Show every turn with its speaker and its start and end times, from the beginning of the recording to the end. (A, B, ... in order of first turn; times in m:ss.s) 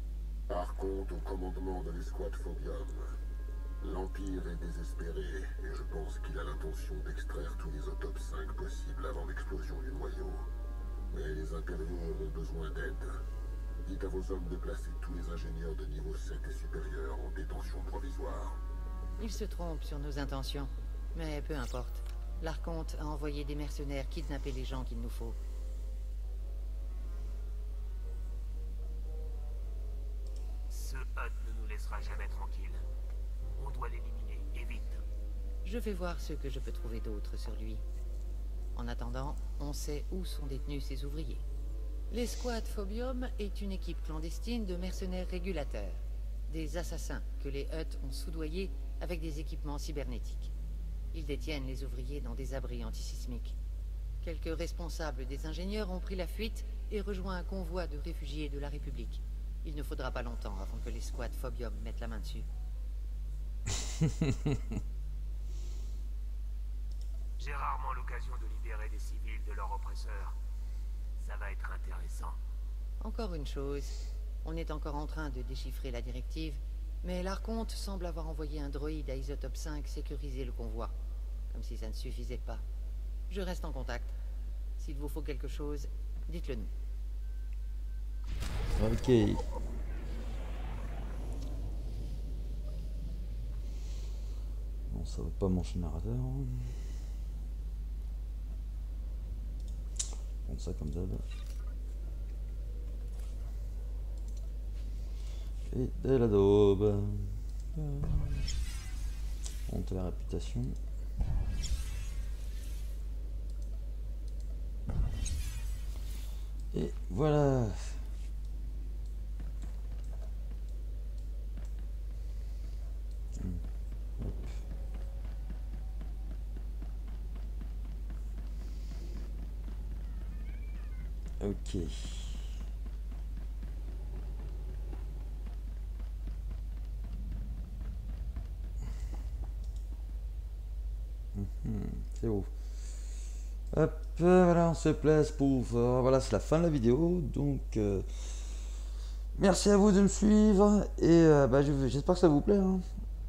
0:00.5-0:03.1 A
0:03.8-0:10.5 A
0:11.1-0:13.2 A
0:13.8-0:18.6 A
0:19.2-0:25.4 B
0:30.7-0:32.8 C
0:33.6-0:35.0 C
0:35.6-0:37.8 B
0:38.7-0:41.4 B
0:42.1-0:50.5 B
0:51.1-0:53.6 B
0:54.2-1:02.5 B
1:07.4-1:10.4 C
1:11.2-1:12.4 C
1:13.0-1:21.0 B
1:21.5-1:22.6 B
1:23.3-1:24.2 B
1:24.8-1:26.7 B
1:28.8-1:29.4 D
1:34.9-1:36.8 D
1:40.4-1:41.2 D
1:45.7-1:48.5 D
1:49.7-1:50.8 D
1:56.7-1:58.0 D
2:03.3-2:03.6 D
2:04.2-2:04.6 D
2:11.4-2:12.6 D
2:21.3-2:22.5 D
2:23.7-2:28.6 D
2:29.4-2:32.8 D